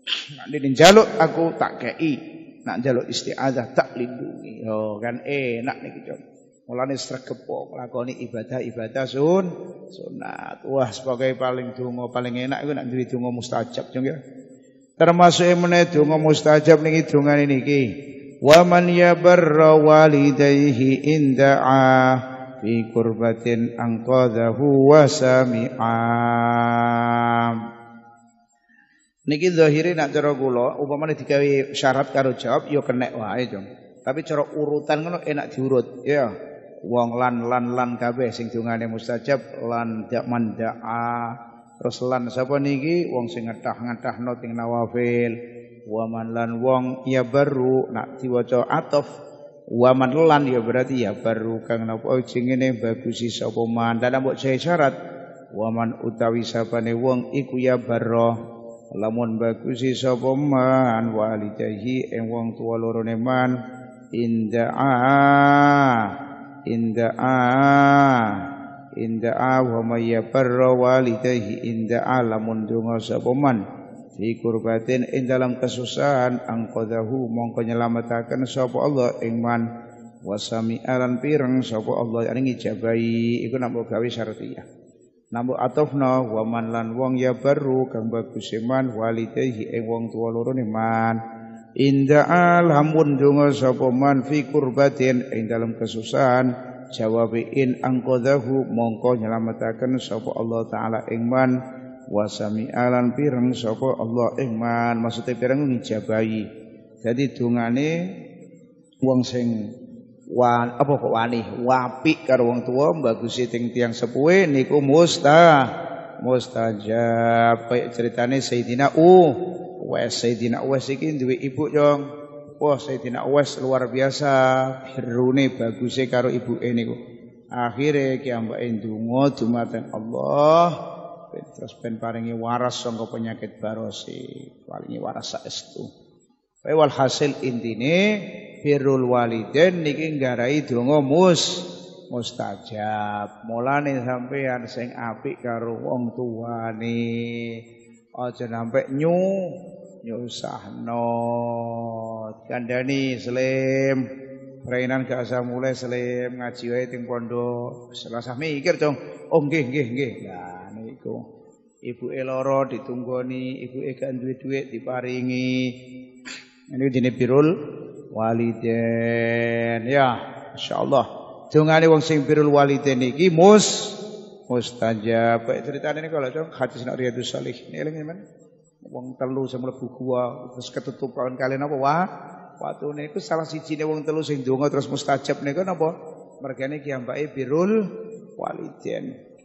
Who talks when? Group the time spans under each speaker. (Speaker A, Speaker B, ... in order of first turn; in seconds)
Speaker A: 0.4-14.2, 15.0-17.9, 18.4-27.6, 29.3-36.3, 36.9-45.4, 45.9-49.1, 49.7-55.0, 55.5-58.4, 59.0-63.5, 64.2-66.1, 66.7-68.5, 69.0-73.6, 74.2-79.6, 80.3-84.7, 85.3-91.2, 91.8-101.5, 102.1-106.5, 107.0-107.9, 109.0-109.6, 110.3-115.6, 116.2-122.0, 122.6-127.0, 127.5-130.8, 131.3-135.9, 136.6-138.0, 138.6-147.6, 148.2-154.1, 154.6-161.2, 161.8-165.7, 166.7-167.5, 168.1-173.9, 174.5-178.2, 178.8-182.0, 182.6-187.8, 188.4-189.1